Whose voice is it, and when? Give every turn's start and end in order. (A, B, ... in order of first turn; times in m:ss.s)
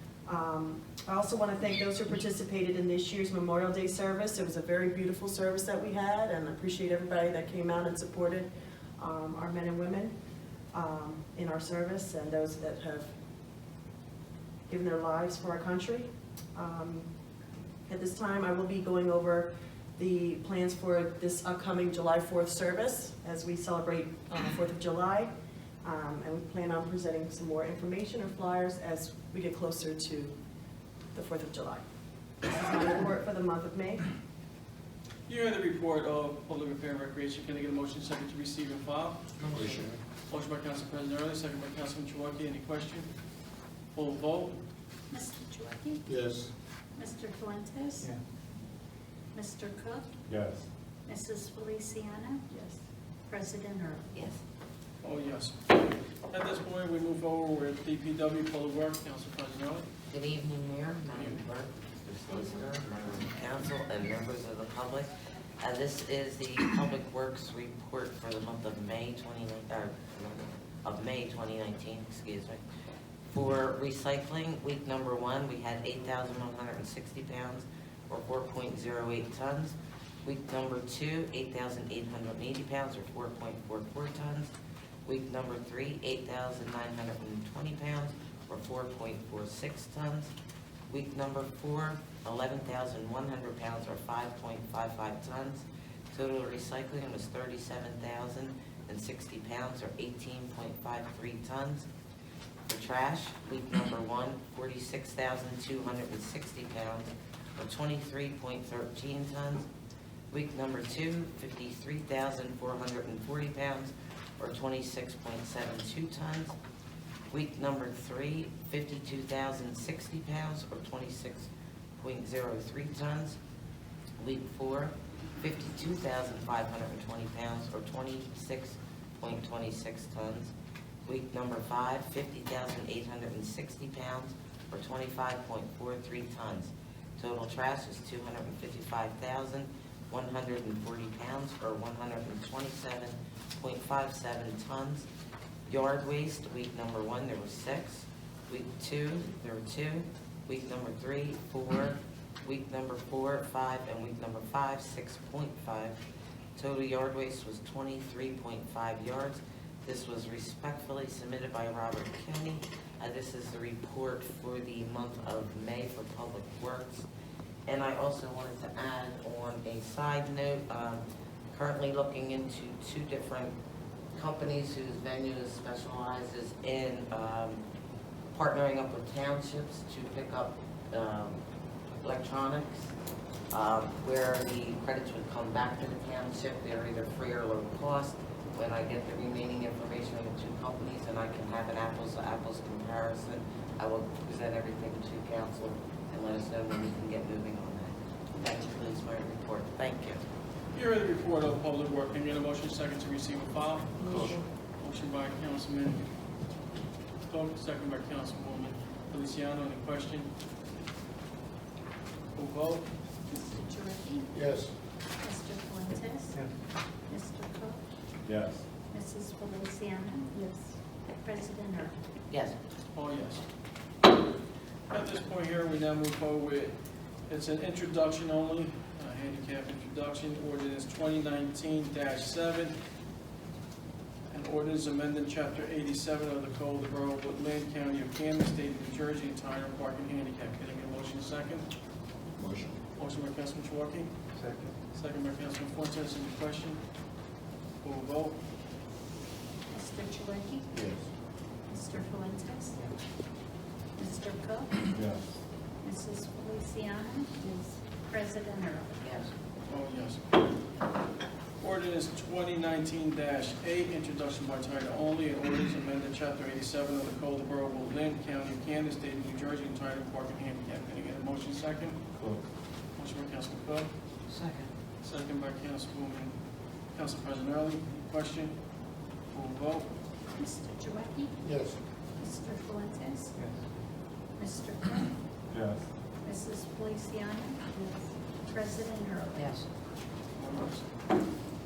0:00.2-0:10.1 A
0:10.7-0:13.1 A
0:14.7-0:17.1 A
0:17.9-0:25.3 A
0:25.8-0:30.4 A
0:31.1-0:31.8 A
0:32.4-0:34.0 A
0:35.3-0:39.3 B
0:39.4-0:39.8 C
0:39.5-0:39.9 D
0:40.3-0:43.1 B
0:43.9-0:44.6 B
0:45.1-0:46.0 E
0:46.1-0:46.5 D
0:46.9-0:48.2 E
0:49.3-0:50.1 E
0:50.3-0:50.7 F
0:51.0-0:52.5 E
0:53.3-0:54.1 E
0:54.1-0:54.4 C
0:55.0-0:55.8 B
0:56.3-0:59.8 B
1:00.1-1:05.1 C
1:05.6-1:12.6 C
1:13.3-1:24.5 C
1:25.0-1:30.3 C
1:30.9-1:41.9 C
1:42.7-1:49.6 C
1:50.3-1:56.6 C
1:57.3-2:03.4 C
2:04.2-2:10.5 C
2:11.0-2:25.0 C
2:25.7-2:36.0 C
2:36.6-2:47.1 C
2:47.7-2:53.5 C
2:54.1-2:57.6 C
2:58.3-3:01.4 C
3:02.0-3:02.9 C
3:03.5-3:20.2 C
3:20.7-3:26.0 B
3:24.1-3:24.4 F
3:27.3-3:30.3 B
3:32.3-3:32.9 B
3:33.2-3:34.3 E
3:34.3-3:34.7 D
3:35.2-3:36.5 E
3:37.1-3:37.8 E
3:38.2-3:38.6 F
3:38.9-3:40.6 E
3:41.1-3:42.0 E
3:42.3-3:42.6 C
3:42.9-3:43.4 B
3:44.9-3:46.7 B
3:47.3-3:52.7 B
3:54.3-4:01.6 B
4:02.4-4:02.7 D
4:02.9-4:04.3 B
4:04.9-4:06.8 B
4:07.8-4:08.4 B
4:09.7-4:10.7 E
4:10.7-4:11.0 D
4:10.7-4:11.0 F
4:11.6-4:13.0 E
4:14.0-4:14.9 E
4:14.9-4:15.4 F
4:15.8-4:19.0 E
4:19.0-4:19.3 C
4:19.7-4:20.2 B
4:21.6-4:32.1 B
4:33.0-4:33.9 B
4:34.3-4:34.7 C
4:35.0-4:36.3 B
4:36.9-4:38.5 B
4:39.3-4:39.9 B
4:40.3-4:41.4 E
4:41.4-4:41.8 D
4:42.1-4:43.5 E
4:44.3-4:45.2 E
4:45.5-4:45.9 F
4:46.2-4:49.5 E
4:49.4-4:49.6 C
4:50.4-4:50.8 B